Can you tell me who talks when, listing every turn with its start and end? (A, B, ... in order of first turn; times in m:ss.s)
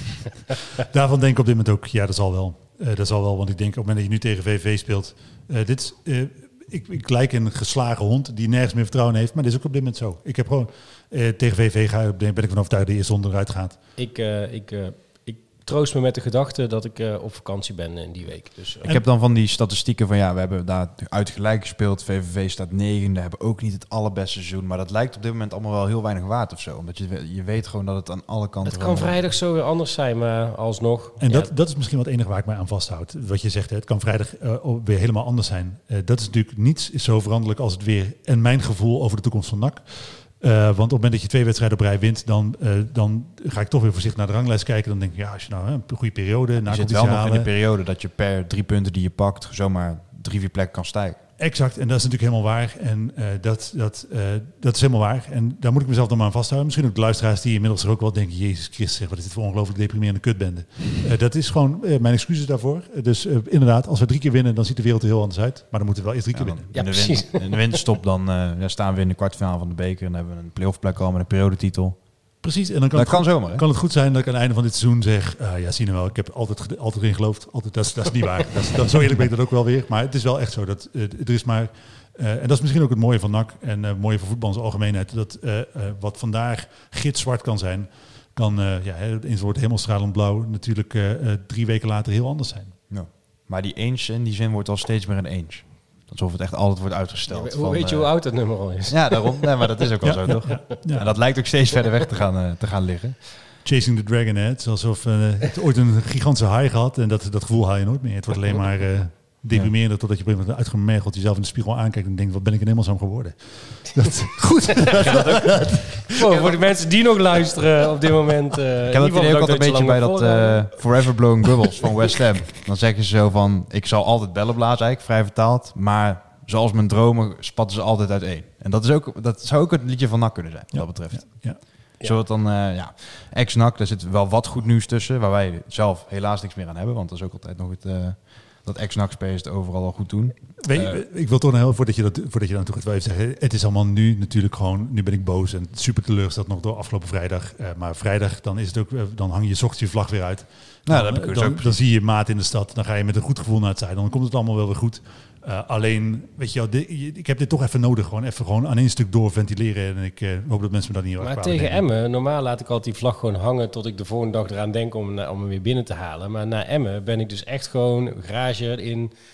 0:00.8-0:13.8 A
0:14.0-0:18.9 B
0:18.8-0:29.2 C
0:28.6-0:31.5 B
0:31.2-0:47.5 A
0:46.6-0:51.2 C
0:51.4-1:06.7 A
1:06.3-1:12.0 C
1:06.7-1:07.8 B
1:12.4-1:32.7 A
1:12.9-1:13.6 C
1:32.9-1:38.1 C
1:37.3-1:39.6 B
1:38.9-1:43.2 C
1:40.0-1:41.1 A
1:43.6-1:56.3 A
1:54.7-2:00.9 B
1:58.9-2:21.0 C
2:10.7-2:11.6 A
2:20.6-2:41.8 A
2:30.8-2:31.8 C
2:41.2-2:49.1 B